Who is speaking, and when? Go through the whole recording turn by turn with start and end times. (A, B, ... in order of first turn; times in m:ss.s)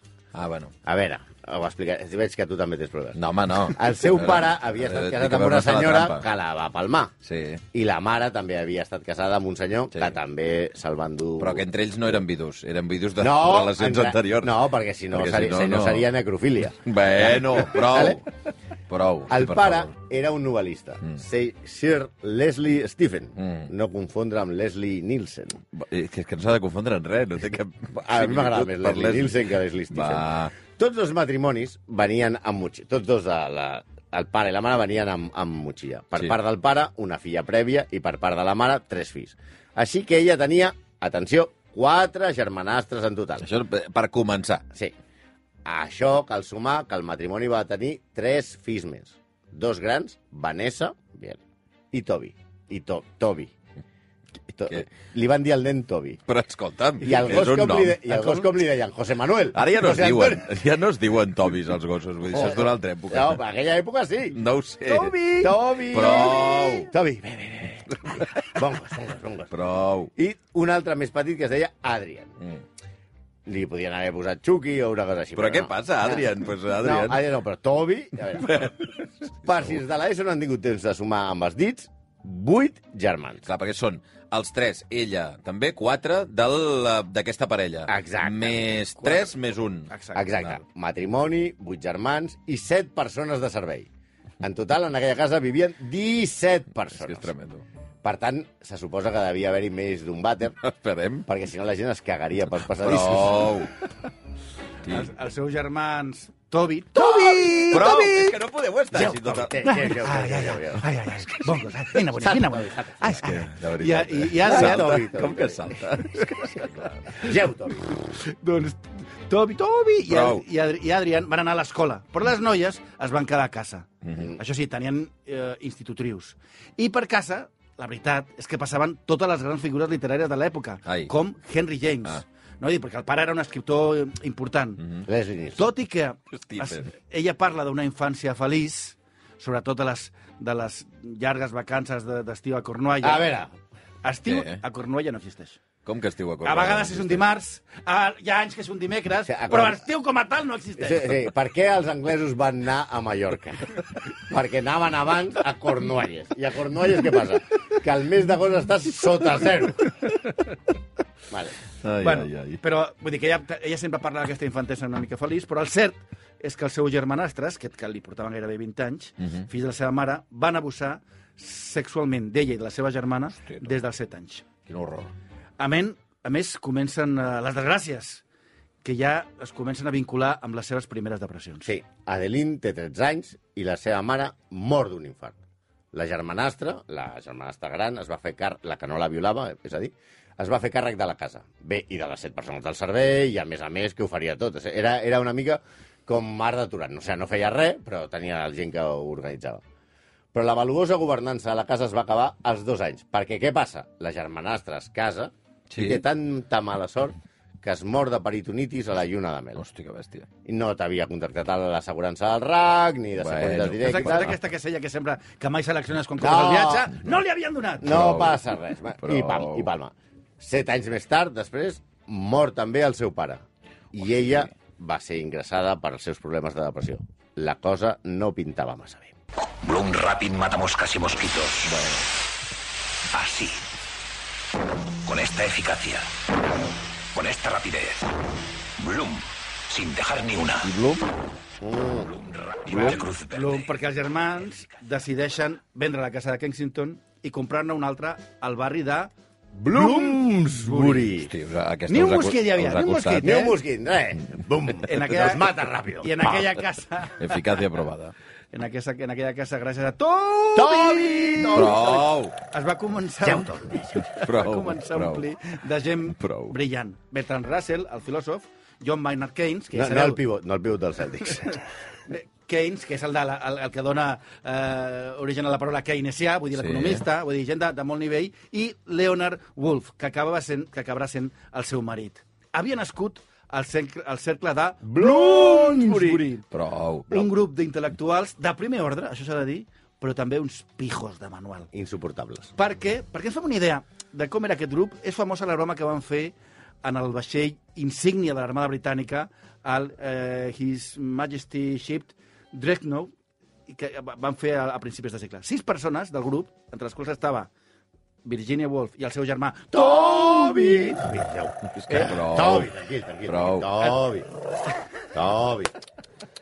0:00.3-0:00.7 A
0:00.8-0:07.1 B
0:03.2-0:06.3 A
0:07.2-0:07.6 A
0:07.7-0:11.7 B
0:11.4-0:14.6 A
0:13.2-0:18.2 B
0:15.1-0:16.1 A
0:16.8-0:18.2 A
0:18.9-0:19.9 A
0:19.3-0:25.6 B
0:23.4-0:23.7 A
0:25.7-0:29.4 A
0:28.0-0:43.5 B
0:29.9-0:30.5 A
0:43.4-0:44.6 A
0:45.6-0:51.4 B
0:51.9-0:53.5 B
0:54.5-0:56.2 B
0:56.3-0:58.2 A
0:57.0-1:00.5 B
0:57.0-0:57.3 C
0:58.1-0:58.4 C
0:59.5-1:03.4 A
1:02.3-1:04.4 B
1:04.4-1:06.9 A
1:04.9-1:05.5 C
1:04.9-1:09.5 B
1:09.5-1:10.1 A
1:10.2-1:12.3 B
1:13.5-1:16.3 B
1:15.4-1:17.2 A
1:16.8-1:18.7 B
1:18.5-1:18.9 A
1:19.4-1:23.5 B
1:23.5-1:29.9 A
1:27.9-1:29.2 B
1:29.9-1:30.4 C
1:30.2-1:33.9 B
1:34.4-1:37.3 B
1:36.9-1:37.6 A
1:38.0-1:40.6 B
1:40.6-1:41.3 A
1:41.3-1:43.5 B
1:42.8-1:43.7 A
1:44.9-1:48.2 C
1:47.0-1:48.2 B
1:47.5-1:49.7 A
1:48.9-1:50.8 B
1:49.6-1:54.9 C
1:52.2-1:53.2 B
1:53.2-1:56.9 A
1:54.4-1:56.2 B
1:57.1-1:58.0 B
1:58.2-2:14.8 C
2:00.1-2:00.4 A
2:04.0-2:04.3 A
2:15.1-2:15.7 B
2:15.6-2:23.3 C
2:16.3-2:16.9 A
2:23.0-2:23.5 B
2:24.0-2:25.6 C
2:24.3-2:24.6 A
2:25.8-2:27.3 A
2:26.4-2:31.1 C
2:29.2-2:29.8 B
2:30.8-2:39.9 B
2:41.3-2:41.6 B
2:41.8-2:42.6 A
2:42.0-2:54.4 C
2:54.7-2:55.1 A
2:55.6-2:58.2 C
2:58.8-3:01.7 C
3:01.6-3:05.4 B
3:05.9-3:19.6 B
3:20.3-3:29.6 B
3:25.7-3:26.0 A
3:29.6-3:30.3 A
3:30.4-3:34.3 B
3:33.2-3:34.4 A
3:33.8-3:38.0 C
3:36.2-3:36.9 B
3:37.8-3:49.2 B
3:37.8-3:38.4 A
3:39.0-3:39.7 A
3:49.6-3:51.8 D
3:51.7-3:52.1 A
3:53.1-3:53.6 D
3:55.1-3:56.1 D
3:57.1-3:58.1 D
3:58.8-4:00.7 D
4:00.6-4:01.1 A
4:01.6-4:02.1 B
4:02.2-4:03.7 D
4:02.8-4:09.1 C
4:09.6-4:11.3 B
4:09.7-4:11.1 C
4:11.2-4:13.4 A
4:11.9-4:13.6 C
4:13.2-4:16.4 B
4:14.9-4:17.6 C
4:17.2-4:18.1 A
4:18.5-4:30.2 C
4:20.6-4:22.0 B
4:21.5-4:22.3 A
4:23.2-4:24.1 B
4:24.1-4:25.2 A
4:26.2-4:26.6 A
4:29.7-4:31.6 B
4:32.1-4:46.4 C
4:36.6-4:37.0 A
4:44.8-4:46.2 B
4:46.5-4:47.3 A
4:47.1-4:51.7 C
4:51.7-4:52.5 B
4:52.6-5:03.1 C
5:03.7-5:07.5 C
5:08.2-5:11.0 C
5:09.7-5:14.3 B
5:11.7-5:12.7 A
5:11.9-5:12.2 C
5:13.3-5:13.7 A
5:15.1-5:15.7 B